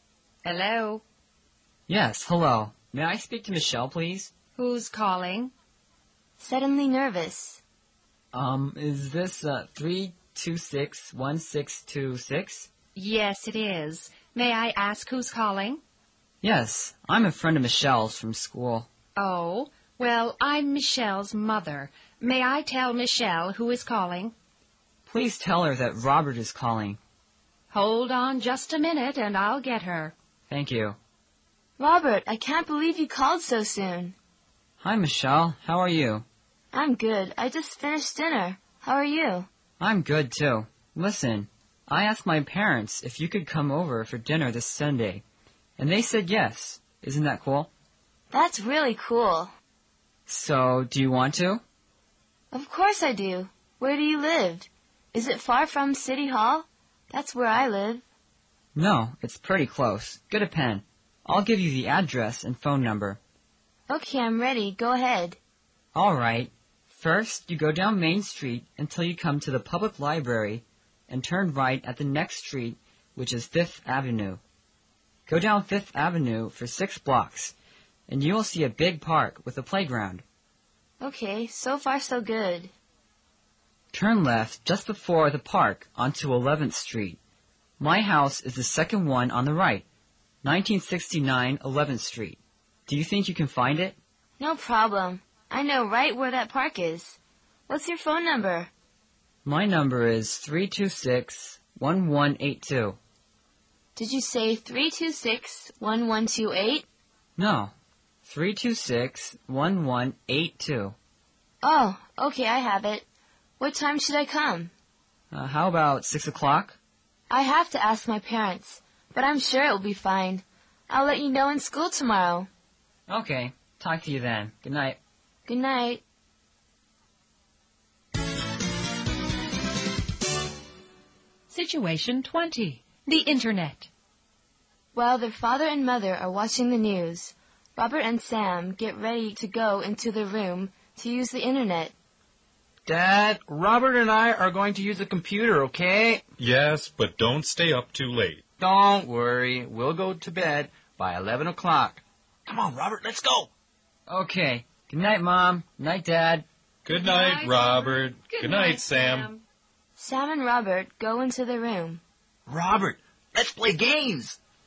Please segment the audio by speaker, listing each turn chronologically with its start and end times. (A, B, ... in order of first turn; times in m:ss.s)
0:00.4-0:01.0 A
0:01.9-0:04.3 B
0:04.6-0:05.5 A
0:06.4-0:07.6 C
0:08.3-0:12.7 B
0:12.9-0:15.8 A
0:16.4-0:18.9 B
0:19.2-0:24.3 A
0:25.0-0:27.0 B
0:27.7-0:30.1 A
0:30.5-0:31.0 B
0:31.8-0:34.1 C
0:34.8-0:36.2 B
0:36.7-0:39.5 C
0:39.8-0:45.2 B
0:45.8-0:47.7 B
0:48.3-0:49.5 C
0:50.3-0:51.6 B
0:52.5-0:58.0 C
0:58.7-1:03.2 B
1:03.9-1:05.4 C
1:05.9-1:14.4 B
1:15.3-1:17.5 B
1:18.1-1:20.2 B
1:21.0-1:22.7 C
1:23.9-1:27.2 B
1:27.8-1:29.8 B
1:30.4-1:34.0 B
1:34.4-1:38.7 C
1:39.4-1:43.0 B
1:44.0-1:46.8 C
1:47.4-1:47.7 B
1:48.2-1:51.0 B
1:51.6-1:53.0 C
1:53.6-1:54.7 C
1:55.3-1:56.8 B
1:57.3-2:02.5 C
2:03.1-2:05.0 B
2:05.5-2:06.0 C
2:11.5-2:13.9 A
2:14.9-2:21.9 C
2:22.8-2:26.2 D
2:26.4-2:28.4 E
2:28.6-2:33.5 D
2:34.1-2:36.4 B
2:36.8-2:39.3 E
2:36.9-2:39.4 A
2:40.0-2:42.0 C
2:42.5-2:44.4 D